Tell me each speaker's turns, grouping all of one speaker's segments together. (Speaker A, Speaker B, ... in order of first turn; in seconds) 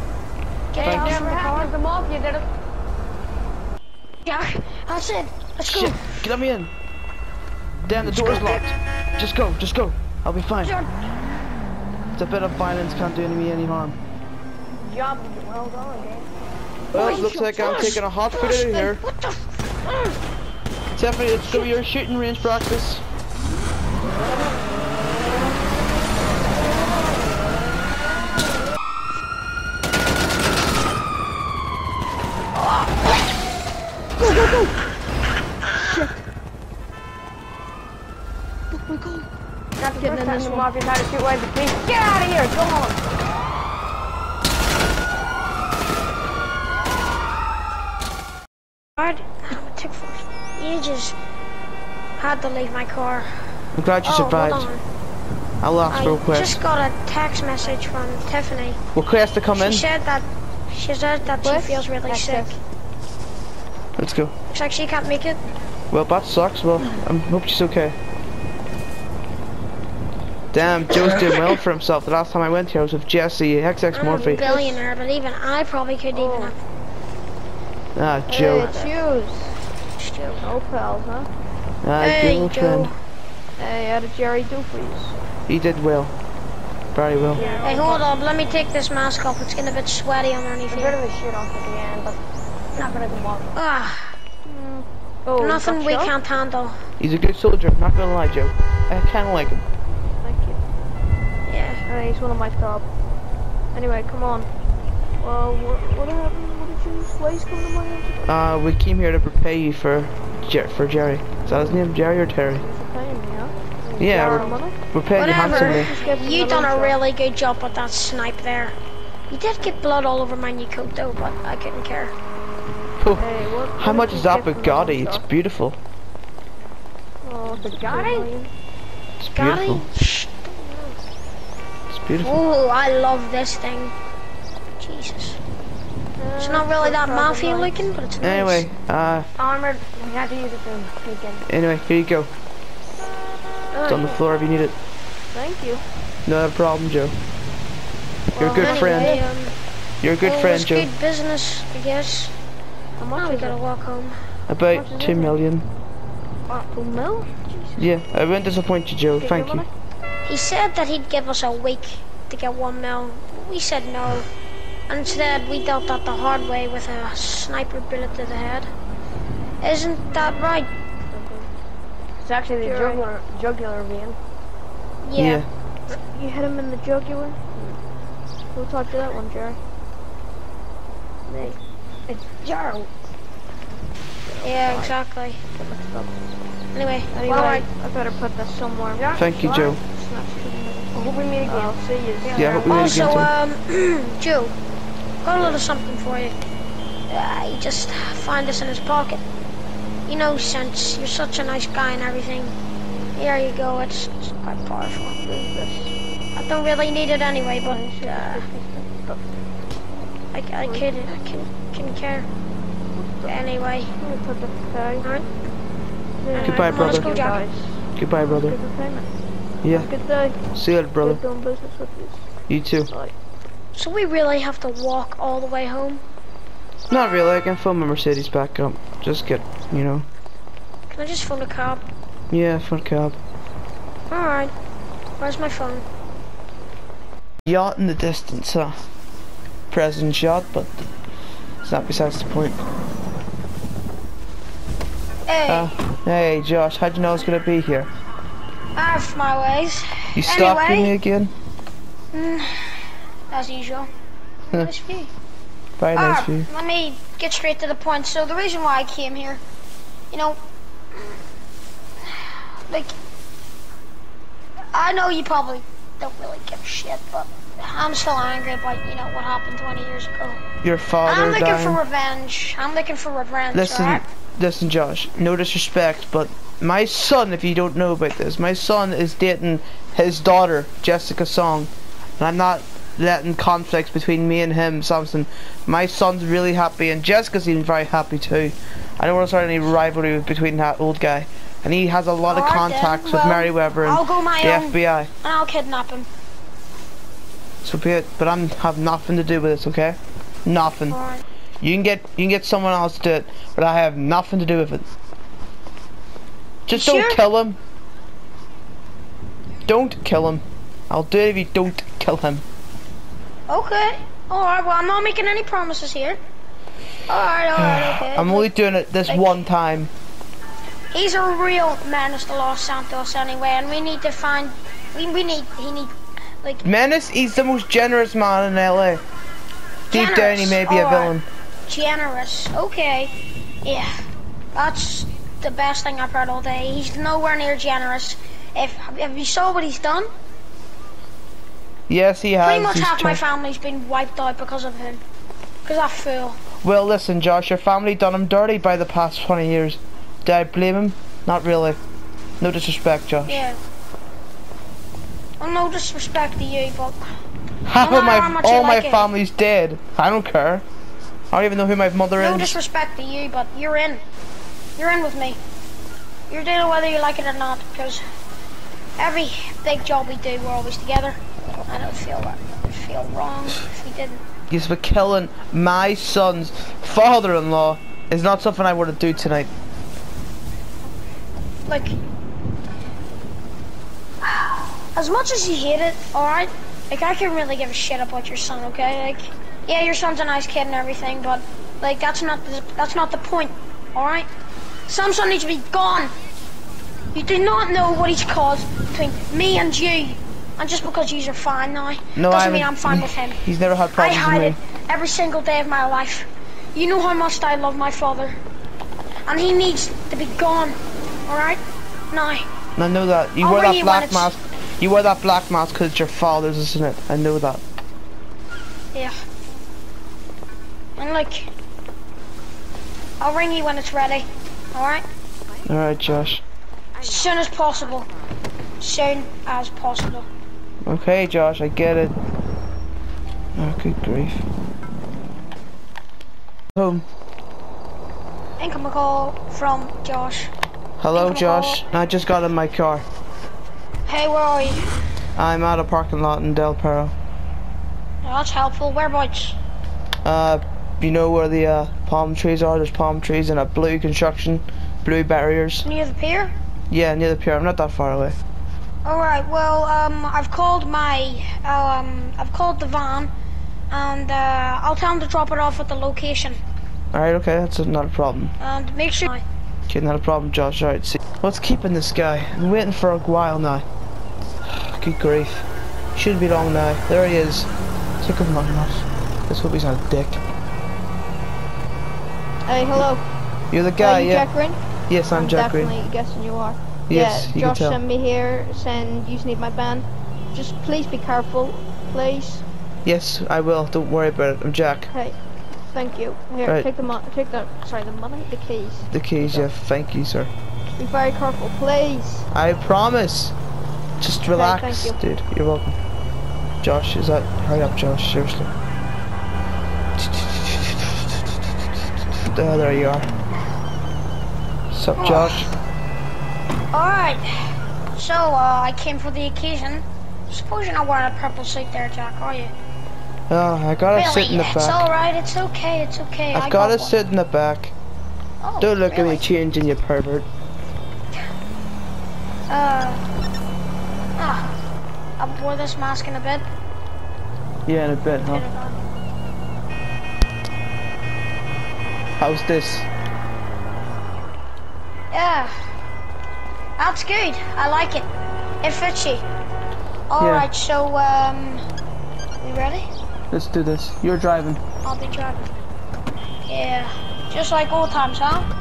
Speaker A: 0.7-1.7, 4.2-6.3, 8.1-8.7, 10.6-10.9, 16.9-19.9, 21.5-21.8, 49.0-51.2, 52.2-53.3, 54.0-54.8, 55.9-58.8, 59.5-62.6, 64.5-65.4, 73.9-76.6, 78.6-78.9, 80.0-80.5, 82.0-83.0, 87.6-91.0, 93.5-94.2, 95.4-96.8, 101.5-101.8, 115.2-118.8, 119.3-122.2, 129.3-131.0, 132.1-133.9, 134.8-135.4, 136.4-138.7, 148.5-149.6, 150.2-152.3, 153.2-154.2, 160.3-164.3, 164.9-168.7, 169.6-170.7, 175.0-175.4, 184.4-185.4, 186.7-187.7, 192.6-194.5, 195.2-196.3, 197.1-199.2, 200.1-202.6, 203.2-205.2, 206.3-208.5, 210.3-212.3, 213.2-213.9, 215.0-215.3, 216.3-217.4, 223.8-226.0, 230.9-231.8, 234.1-234.5, 235.2-235.8, 245.3-245.7, 248.8-250.9, 252.1-253.9, 254.5-255.1, 255.9-259.4, 260.1-260.4, 260.9-261.2, 262.1-262.9, 264.7-270.4, 271.0-274.0, 292.3-296.1, 300.9-301.2, 306.7-307.2, 313.5-316.2, 317.1-318.5, 319.1-319.4, 320.9-326.6, 329.9-333.1, 334.6-340.1, 342.4-345.0, 345.6-346.4, 353.3-353.6, 355.4-357.0, 357.8-359.1, 362.2-364.0, 364.8-365.4, 366.3-368.0, 369.0-374.2, 381.7-382.0, 384.2-394.3, 394.9-396.1, 397.1-403.4, 403.9-408.4, 409.3-412.5, 413.4-414.3, 421.0-421.5, 423.2-425.0, 427.0-428.1, 428.8-430.3, 438.6-440.5, 441.1-441.8, 444.1-444.9, 448.2-449.6, 455.8-456.5, 459.1-463.3, 463.9-466.6, 468.6-469.4, 515.2-515.7, 516.9-522.7, 524.1-527.2, 528.6-529.4, 532.7-533.2, 534.4-534.8, 535.4-536.7, 538.5-539.0, 545.3-545.7, 547.0-548.3, 548.8-549.5, 550.3-551.8, 552.6-553.1, 555.0-555.7, 556.7-558.7
Speaker B: 0.8-2.5, 14.8-16.3, 39.8-43.0, 87.3-88.0, 90.7-92.2, 92.8-93.5, 113.8-114.6, 127.5-128.3, 139.4-141.4, 172.2-174.2, 182.1-182.9, 188.9-189.8, 190.9-193.1
Speaker C: 0.8-1.3, 5.7-6.7, 7.8-10.7, 12.2-14.0, 16.9-19.0, 20.9-23.0, 53.8-54.7, 55.6-56.6, 59.0-59.9, 64.0-64.3, 65.9-68.0, 70.5-74.5, 78.0-78.8, 81.8-82.9, 85.5-86.2, 86.9-87.4, 97.0-99.6, 108.3-112.7, 114.0-115.9, 123.8-125.8, 129.2-129.9, 131.9-132.4, 138.2-139.3, 141.5-142.3, 143.8-144.8, 146.3-147.2, 148.4-149.2, 150.0-150.9, 154.5-155.7, 157.8-159.7, 175.2-175.5, 189.2-189.8, 192.3-193.3, 216.4-217.3, 218.0-218.6, 219.6-219.9, 220.5-221.2, 222.5-222.9, 226.9-230.1, 232.3-233.2, 237.5-238.8, 239.7-240.8, 241.6-242.6, 245.5-247.9, 250.2-251.3, 255.8-256.5, 270.6-271.8, 273.5-295.1, 297.6-301.0, 301.6-304.9, 306.7-307.6, 309.7-312.4, 317.6-319.9, 326.6-329.0, 329.9-331.3, 341.9-343.2, 346.6-351.8, 352.4-353.4, 357.7-360.6, 361.3-362.6, 374.5-379.5, 402.1-404.6, 412.8-417.6, 425.7-426.4, 430.8-432.2, 433.6-434.5, 436.8-437.0, 441.0-443.1, 445.4-447.1, 450.2-455.9, 456.9-458.4, 467.1-468.5, 469.9-473.9, 474.6-477.7, 478.2-480.4, 483.7-484.5, 485.1-485.9, 487.1-488.0, 493.1-495.1, 499.1-500.5, 502.5-503.6, 504.2-506.0, 506.8-508.7, 510.2-511.2, 512.3-513.3, 514.9-515.7, 523.5-525.1, 526.5-527.9, 528.8-530.5, 537.9-538.7, 542.4-543.1, 550.4-550.7, 553.5-554.8
Speaker D: 35.7-36.2, 38.7-39.3, 40.0-40.7, 61.4-62.6, 74.1-74.8, 76.1-76.6, 78.3-79.6, 80.4-81.3, 83.6-85.2, 87.3-88.1, 94.5-96.1, 100.2-100.6, 101.9-102.9, 103.7-104.5, 105.2-108.3, 111.5-111.9, 112.6-117.0, 123.1-125.3, 127.2-128.5, 136.2-137.9, 143.9-144.2, 145.3-145.8, 148.3-149.2, 153.0-153.6, 154.7-155.4, 156.5-157.9, 159.1-159.7, 170.1-170.6, 171.1-171.5, 172.6-173.1, 175.9-177.7, 178.5-179.6, 181.3-181.6, 184.2-184.9, 185.6-186.2, 187.1-189.2, 189.8-192.9, 205.2-206.0, 207.6-209.2, 210.6-211.1, 213.0-213.4, 214.0-215.1, 216.2-219.1, 219.7-220.4, 221.0-222.3, 222.9-223.1, 482.7-483.2, 484.0-492.6, 495.1-499.7, 500.9-502.5, 504.5-505.2